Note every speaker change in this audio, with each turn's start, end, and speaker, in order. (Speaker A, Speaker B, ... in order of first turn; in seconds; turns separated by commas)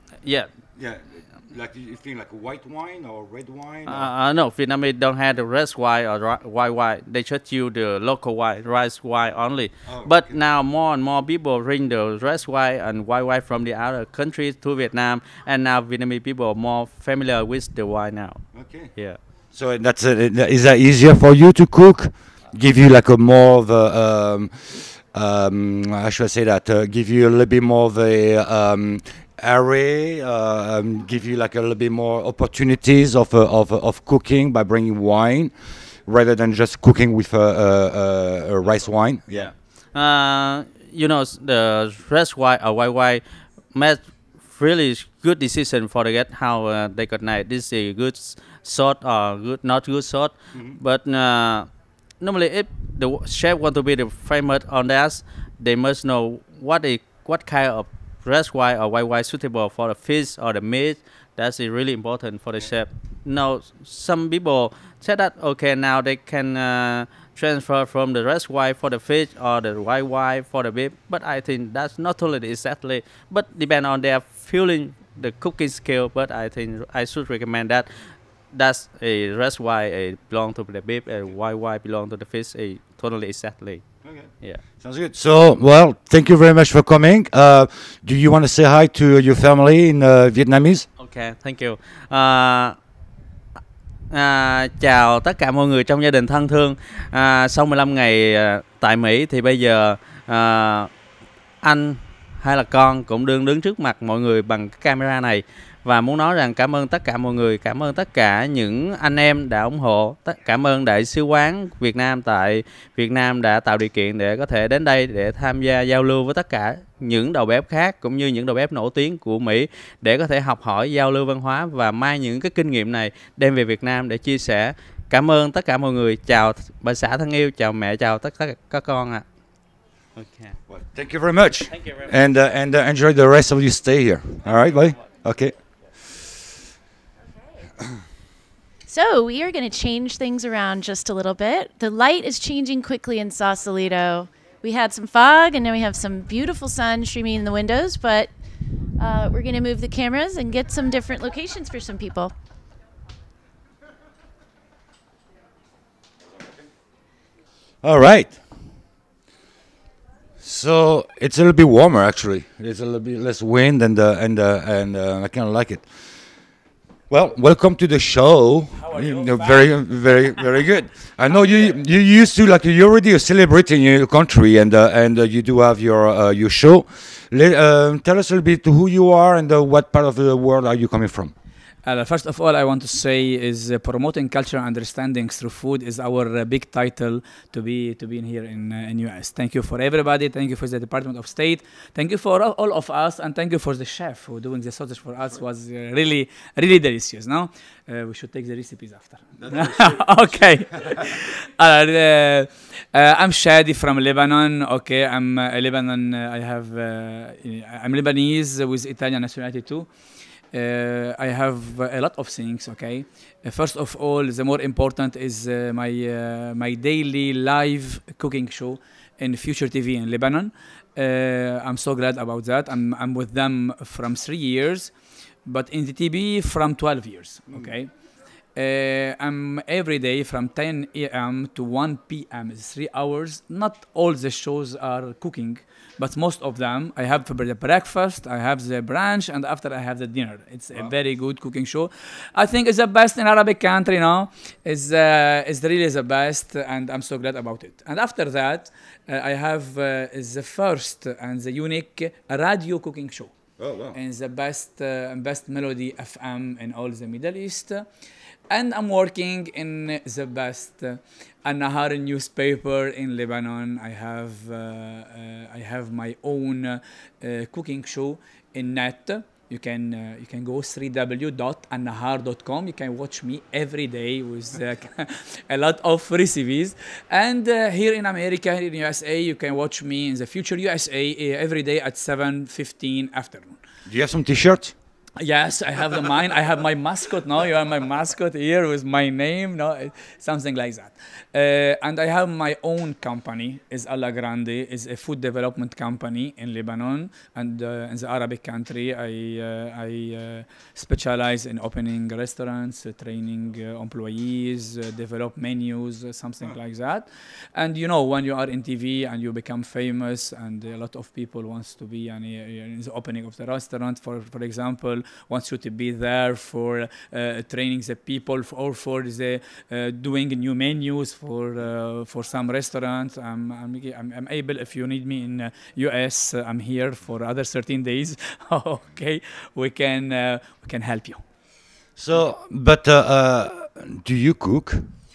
Speaker A: 0.2-0.5, Speaker B: 0.8-4.1, Speaker A: 3.9-19.2, Speaker B: 9.9-10.4, Speaker B: 18.5-39.5, Speaker A: 39.3-84.6, Speaker B: 50.5-50.8, Speaker B: 84.0-90.9, Speaker A: 91.0-92.8, Speaker A: 94.1-100.9, Speaker A: 101.6-129.2, Speaker A: 130.2-130.6, Speaker B: 130.7-135.6, Speaker A: 131.7-132.1, Speaker C: 138.9-148.3, Speaker C: 149.0-152.3, Speaker B: 157.8-158.4, Speaker B: 160.4-165.9, Speaker B: 167.1-181.3, Speaker D: 168.8-170.5, Speaker D: 171.3-171.7, Speaker D: 181.8-209.9, Speaker B: 199.4-200.9, Speaker D: 210.5-224.9, Speaker D: 225.4-228.0, Speaker D: 228.6-253.3, Speaker B: 253.6-254.0, Speaker D: 253.9-257.9, Speaker D: 258.5-283.6, Speaker B: 283.9-284.7, Speaker D: 285.2-331.2, Speaker B: 332.0-334.9